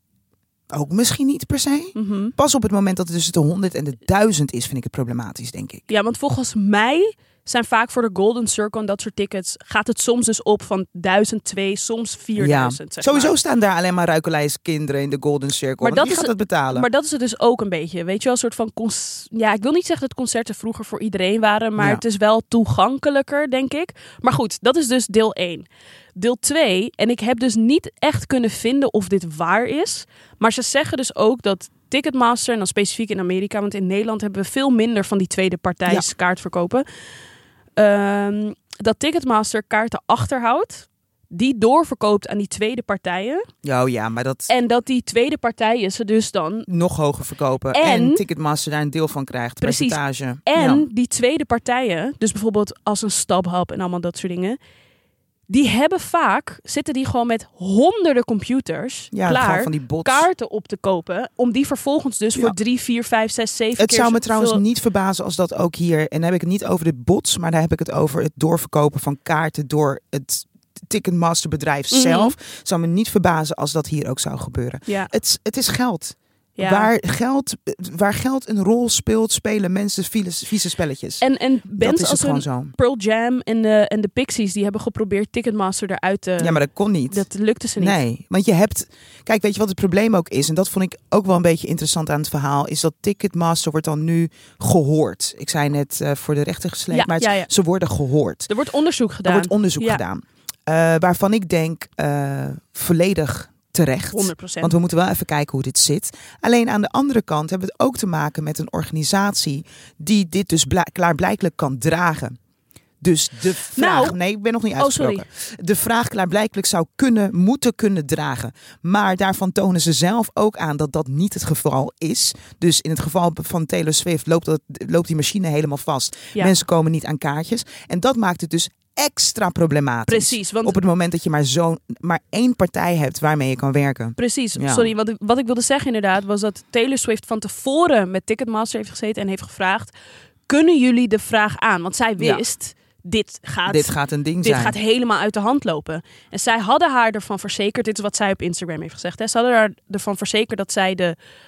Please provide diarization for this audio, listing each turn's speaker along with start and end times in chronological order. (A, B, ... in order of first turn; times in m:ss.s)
0:00.7-0:05.8 A
0:01.9-0:02.3 B
0:05.9-0:13.3 B
0:12.4-0:16.9 A
0:15.8-0:36.8 B
0:37.8-0:43.4 B
0:43.6-0:44.5 A
0:44.5-0:46.7 B
0:46.7-0:50.8 A
0:47.7-0:48.2 B
0:49.6-0:54.6 B
0:55.5-1:04.6 B
0:59.1-1:00.3 A
1:03.8-1:21.2 A
1:11.9-1:12.3 B
1:14.9-1:15.1 B
1:16.6-1:16.9 B
1:21.2-1:28.0 B
1:21.7-1:22.7 A
1:26.4-1:27.2 A
1:27.8-1:38.5 A
1:36.9-1:37.5 B
1:38.5-1:40.0 B
1:39.2-1:52.4 A
1:44.1-1:44.7 B
1:53.0-2:14.9 A
1:53.8-1:54.2 B
1:54.8-1:55.2 B
2:10.1-2:10.8 B
2:14.2-2:19.9 B
2:20.5-2:31.2 B
2:22.2-2:22.4 A
2:23.6-2:24.8 A